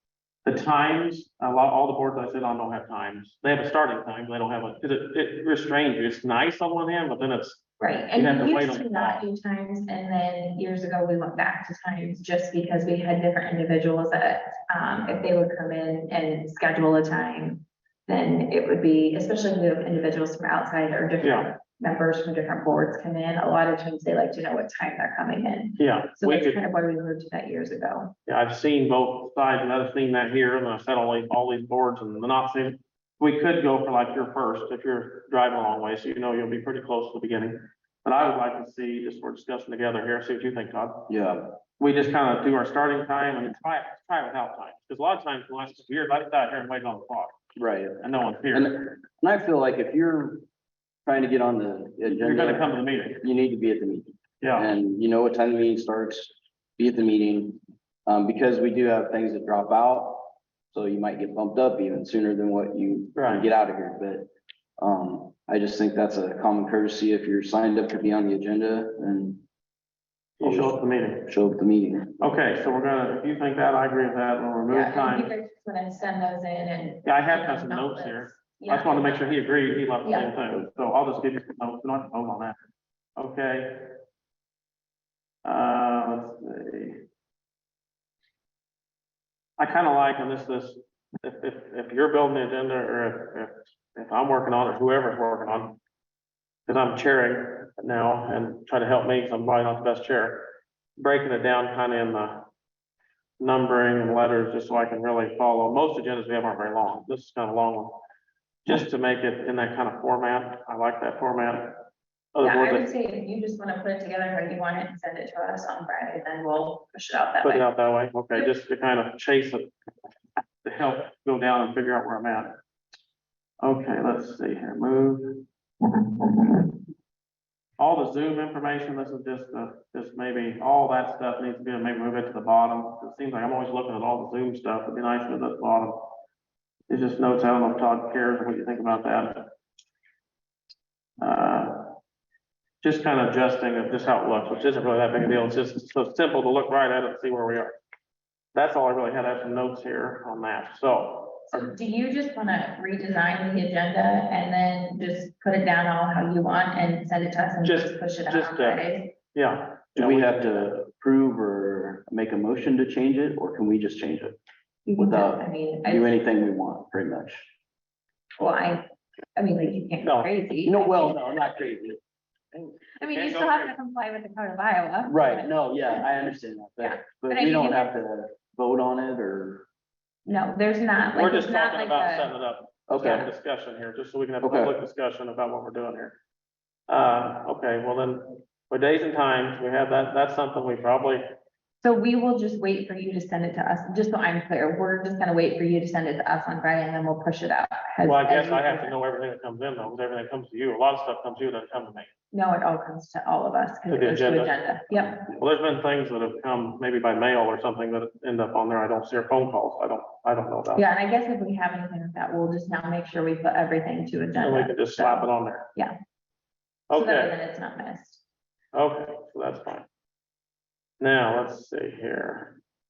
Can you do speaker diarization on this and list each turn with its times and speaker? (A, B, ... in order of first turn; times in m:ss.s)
0:00.4-0:07.6 A
0:07.8-0:28.1 B
0:08.1-0:09.2 A
0:21.2-0:21.5 A
0:25.8-0:26.6 A
0:28.3-0:41.2 A
0:41.1-0:41.5 C
0:41.8-0:47.3 A
0:47.6-0:50.4 C
0:48.0-0:48.8 A
0:51.0-0:52.7 C
0:52.0-0:53.2 A
0:53.2-1:09.4 C
0:54.4-0:54.8 A
1:03.1-1:03.5 A
1:10.4-1:11.3 A
1:10.4-1:12.2 C
1:12.2-1:15.3 A
1:14.7-1:19.4 B
1:17.0-1:22.6 A
1:20.0-1:20.3 B
1:23.2-1:24.0 A
1:25.4-1:27.0 A
1:29.6-1:35.8 A
1:36.6-1:42.4 A
1:43.4-1:48.0 A
1:48.6-1:52.9 A
1:52.4-1:57.7 B
1:57.4-1:59.7 A
2:00.6-2:02.5 A
2:03.6-2:06.7 A
2:07.8-2:16.2 A
2:16.9-2:19.5 A
2:21.2-2:22.0 A
2:22.8-2:27.8 A
2:28.5-2:31.7 A
2:31.5-2:39.1 B
2:37.6-2:40.7 A
2:40.0-2:44.4 C
2:44.8-2:46.1 B
2:45.0-2:47.5 C
2:48.4-2:48.8 B
2:49.4-2:51.3 B
2:50.0-2:50.3 A
2:50.6-2:52.0 C
2:53.0-2:56.0 B
2:53.1-2:53.7 A
2:55.0-2:59.6 C
2:56.8-2:58.0 B
3:00.2-3:02.3 B
3:01.1-3:06.2 A
3:02.9-3:03.3 C
3:04.4-3:04.7 C
3:06.9-3:11.3 A
3:11.8-3:18.9 B
3:18.0-3:22.1 A
3:22.3-3:25.2 B
3:23.9-3:30.8 A
3:30.7-3:35.9 B
3:34.4-3:35.7 A
3:36.9-3:37.3 A
3:36.9-3:38.2 B
3:38.7-3:39.8 A
3:41.0-3:42.6 A